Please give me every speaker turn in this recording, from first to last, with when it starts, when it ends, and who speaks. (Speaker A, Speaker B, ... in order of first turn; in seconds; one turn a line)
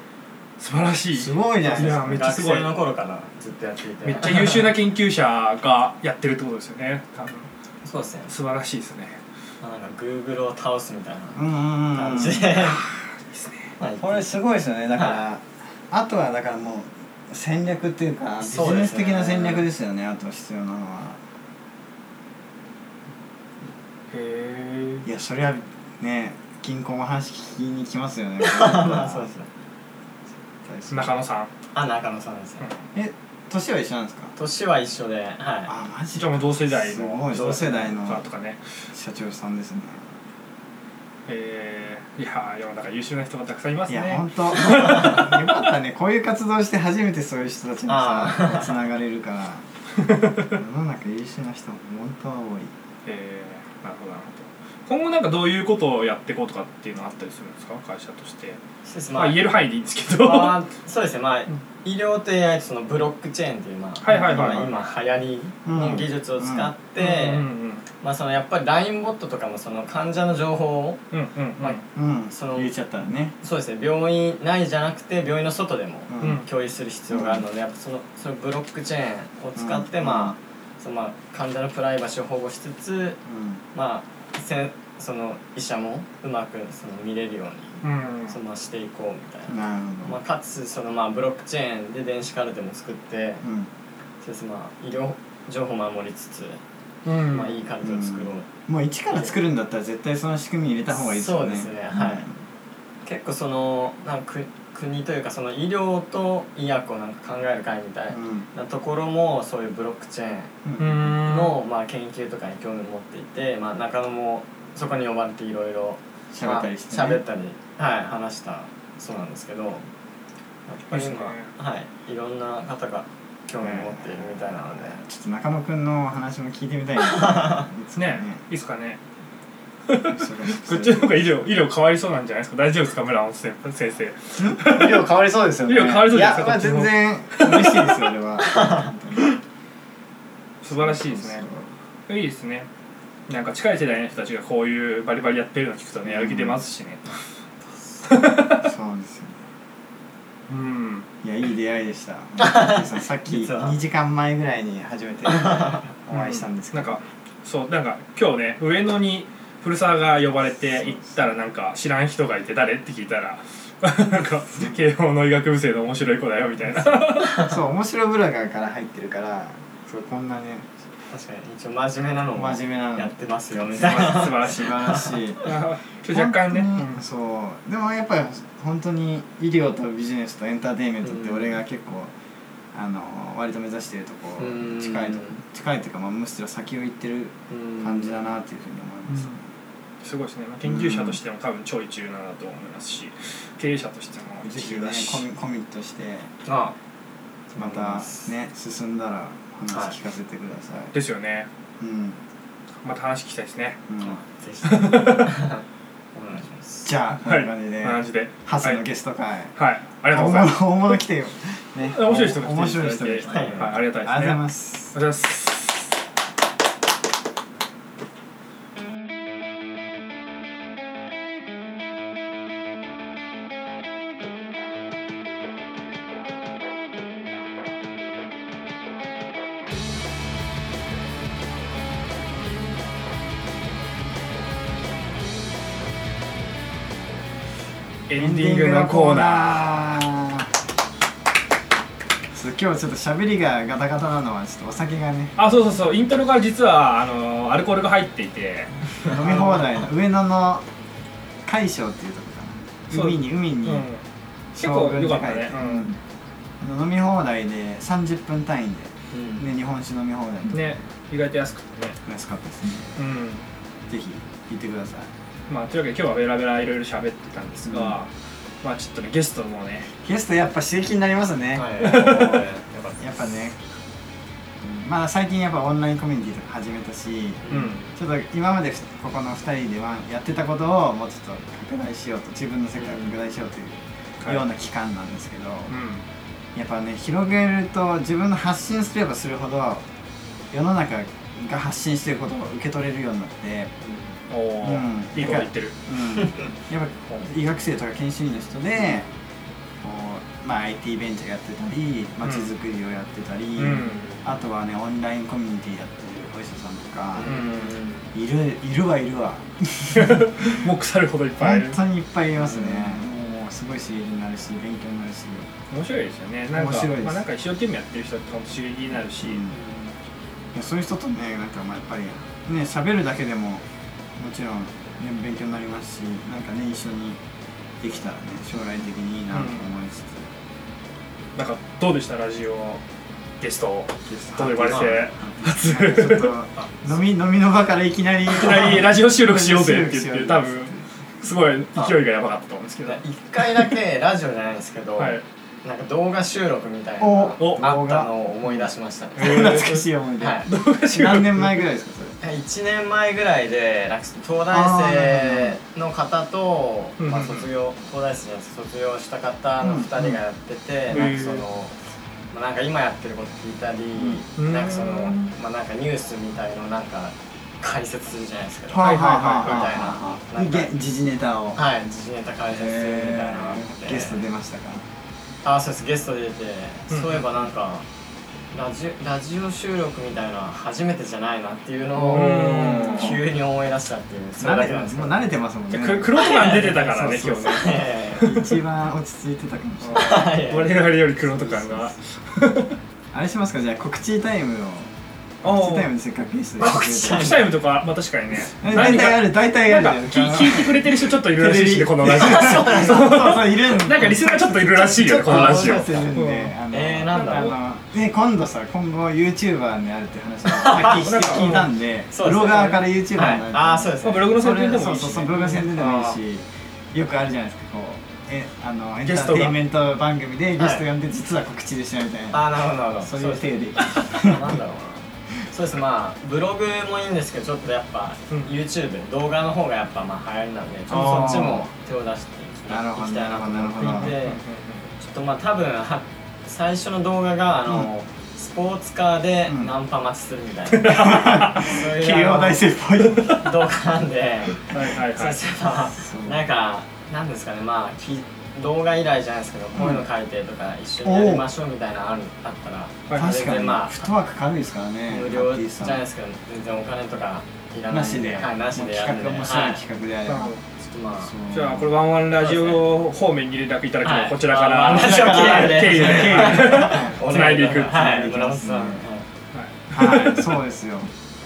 Speaker A: 0.6-2.8
Speaker B: 1.1-2.3
Speaker C: 1.6-4.7
Speaker A: 4.0-7.5
Speaker C: 7.8-8.3
Speaker A: 8.3-9.2
Speaker C: 9.6-12.8
Speaker B: 11.3-12.7
Speaker A: 13.3-13.7
Speaker C: 13.8-14.3
Speaker B: 14.0-21.2
Speaker C: 14.9-15.2
Speaker C: 18.4-19.7
Speaker A: 24.1-25.1
Speaker B: 25.0-29.3
Speaker C: 28.4-29.5
Speaker B: 30.6-31.1
Speaker A: 30.9-31.5
Speaker C: 31.7-32.7
Speaker B: 32.9-34.3
Speaker C: 34.4-35.7
Speaker B: 35.7-38.2
Speaker A: 36.1-38.6
Speaker C: 37.4-37.8
Speaker B: 38.9-40.1
Speaker A: 41.3-45.5
Speaker B: 43.9-49.6
Speaker C: 47.9-48.7
Speaker B: 50.4-52.7
Speaker A: 53.0-58.6
Speaker C: 58.8-59.4
Speaker A: 59.1-60.6
Speaker C: 60.1-67.5
Speaker A: 64.0-64.7
Speaker B: 64.1-64.6
Speaker B: 65.6-66.7
Speaker A: 67.0-67.8
Speaker C: 68.0-71.0
Speaker A: 71.1-71.8
Speaker B: 71.9-73.3
Speaker C: 72.3-72.7
Speaker C: 73.4-83.2
Speaker B: 76.1-76.4
Speaker B: 77.1-77.4
Speaker B: 79.6-80.4
Speaker B: 83.2-83.6
Speaker C: 83.7-93.4
Speaker A: 87.8-88.4
Speaker B: 89.5-90.2
Speaker B: 93.4-93.7
Speaker C: 94.2-96.6
Speaker A: 97.0-97.6
Speaker C: 97.2-98.5
Speaker B: 97.8-102.3
Speaker C: 100.9-102.3
Speaker C: 103.0-110.5
Speaker B: 108.1-108.5
Speaker B: 110.6-111.2
Speaker A: 110.8-111.6
Speaker C: 111.2-119.8
Speaker B: 116.3-117.2
Speaker C: 120.7-125.0
Speaker A: 120.9-121.5
Speaker B: 123.6-128.4
Speaker C: 127.2-127.6
Speaker A: 127.9-129.0
Speaker A: 129.9-135.1
Speaker B: 130.0-131.2
Speaker B: 134.4-139.4
Speaker A: 135.6-138.1
Speaker C: 138.4-138.9
Speaker A: 140.6-141.4
Speaker B: 140.7-141.7
Speaker A: 142.1-142.7
Speaker A: 143.3-147.1
Speaker B: 146.0-146.6
Speaker A: 148.1-148.7
Speaker B: 148.5-149.4
Speaker A: 150.5-151.1
Speaker B: 151.2-157.0
Speaker C: 152.4-153.8
Speaker C: 155.3-155.8
Speaker A: 156.1-167.5
Speaker B: 167.3-170.7
Speaker C: 171.1-175.4
Speaker B: 172.3-175.5
Speaker A: 173.8-177.0
Speaker B: 176.1-182.1
Speaker C: 181.0-181.6
Speaker B: 182.7-189.4
Speaker C: 184.4-185.4
Speaker C: 187.5-188.3
Speaker A: 189.1-189.4
Speaker A: 190.0-195.2
Speaker B: 190.6-191.2
Speaker B: 194.4-196.3
Speaker C: 196.4-196.7
Speaker C: 197.5-198.3
Speaker B: 197.6-200.9
Speaker C: 199.7-199.9
Speaker A: 200.9-201.5
Speaker B: 201.8-202.2
Speaker A: 202.8-203.8
Speaker B: 203.9-204.2
Speaker C: 204.0-205.6
Speaker A: 204.6-205.4
Speaker C: 206.1-206.9
Speaker B: 206.8-209.5
Speaker A: 207.2-208.8
Speaker A: 209.6-210.8
Speaker B: 210.1-214.9
Speaker A: 211.8-214.4
Speaker C: 213.2-213.8
Speaker A: 214.9-215.9
Speaker A: 238.1-240.0
Speaker B: 238.1-240.5
Speaker B: 242.3-245.4
Speaker A: 245.4-248.7
Speaker C: 249.0-249.9
Speaker B: 249.0-250.7
Speaker B: 251.4-253.9
Speaker A: 252.9-254.0
Speaker B: 254.6-256.0
Speaker A: 254.6-255.9
Speaker B: 256.6-260.7
Speaker C: 259.1-259.4
Speaker A: 260.5-262.0
Speaker B: 262.1-263.0
Speaker A: 262.9-263.4
Speaker B: 263.9-265.1
Speaker A: 265.5-268.1
Speaker B: 267.6-268.0
Speaker A: 268.6-269.9
Speaker B: 270.0-272.4
Speaker C: 271.6-273.0
Speaker A: 271.8-272.4
Speaker B: 273.0-273.6
Speaker B: 274.6-285.7
Speaker C: 277.4-277.9
Speaker A: 277.5-277.8
Speaker C: 282.8-283.1
Speaker A: 285.7-286.0
Speaker B: 286.6-289.9
Speaker B: 290.5-293.7
Speaker C: 293.8-294.1
Speaker A: 294.3-295.8
Speaker B: 294.6-299.1
Speaker B: 299.8-307.3
Speaker A: 302.2-302.5
Speaker A: 303.6-304.1
Speaker C: 303.9-304.2
Speaker C: 307.2-308.1
Speaker A: 307.2-307.8
Speaker B: 308.1-310.6
Speaker A: 309.9-311.8
Speaker B: 311.4-315.5
Speaker A: 315.7-319.4
Speaker B: 316.5-317.2
Speaker B: 319.2-319.5
Speaker C: 319.5-319.8
Speaker B: 320.5-323.6
Speaker B: 324.2-327.2
Speaker B: 327.8-330.3
Speaker A: 329.3-329.7
Speaker A: 331.4-332.8
Speaker A: 333.4-336.4
Speaker B: 334.1-340.9
Speaker C: 334.7-335.0
Speaker A: 338.3-343.0
Speaker C: 342.8-350.5
Speaker A: 345.0-345.2
Speaker B: 347.0-348.1
Speaker A: 347.4-347.7
Speaker A: 349.2-349.9
Speaker B: 349.2-352.2
Speaker A: 350.4-351.6
Speaker C: 352.2-361.7
Speaker B: 354.5-355.6
Speaker A: 357.0-357.5
Speaker B: 359.6-360.2
Speaker A: 360.9-361.4
Speaker C: 362.3-370.7
Speaker B: 363.9-364.2
Speaker A: 364.4-365.3
Speaker B: 368.7-371.6
Speaker A: 368.8-369.9
Speaker C: 371.6-374.2
Speaker B: 372.5-374.9
Speaker C: 375.4-377.9
Speaker A: 376.9-377.3
Speaker C: 378.5-385.3
Speaker A: 382.0-383.2
Speaker B: 382.1-383.2
Speaker B: 384.4-390.3
Speaker A: 385.7-388.6
Speaker C: 386.1-388.3
Speaker A: 389.8-392.8
Speaker C: 389.9-391.9
Speaker B: 393.1-394.9
Speaker A: 395.4-395.9
Speaker B: 395.4-397.4
Speaker C: 396.6-397.5
Speaker A: 397.0-406.6
Speaker B: 398.6-424.6
Speaker C: 402.1-403.2
Speaker C: 405.2-406.1
Speaker C: 406.7-407.6
Speaker A: 407.1-407.6
Speaker C: 410.5-411.1
Speaker A: 410.7-411.7
Speaker C: 412.1-414.3
Speaker A: 414.0-415.7
Speaker C: 415.6-416.2
Speaker A: 419.0-419.6
Speaker C: 420.6-420.9
Speaker C: 422.3-434.4
Speaker B: 430.9-431.7
Speaker B: 432.7-434.2
Speaker A: 433.9-434.8
Speaker C: 434.9-442.7
Speaker A: 440.7-441.6
Speaker B: 440.9-443.5
Speaker A: 443.0-443.4
Speaker C: 443.3-454.1
Speaker A: 444.6-445.5
Speaker B: 445.9-446.4
Speaker B: 449.7-450.0
Speaker B: 451.0-451.4
Speaker A: 453.1-453.4
Speaker B: 453.1-456.0
Speaker C: 455.1-459.8
Speaker B: 457.9-460.5
Speaker A: 460.2-460.6
Speaker C: 460.8-461.3
Speaker B: 461.2-461.9
Speaker A: 461.5-468.2
Speaker C: 462.4-462.8
Speaker C: 464.0-469.3
Speaker B: 464.9-469.1
Speaker A: 469.5-470.6
Speaker B: 469.9-471.1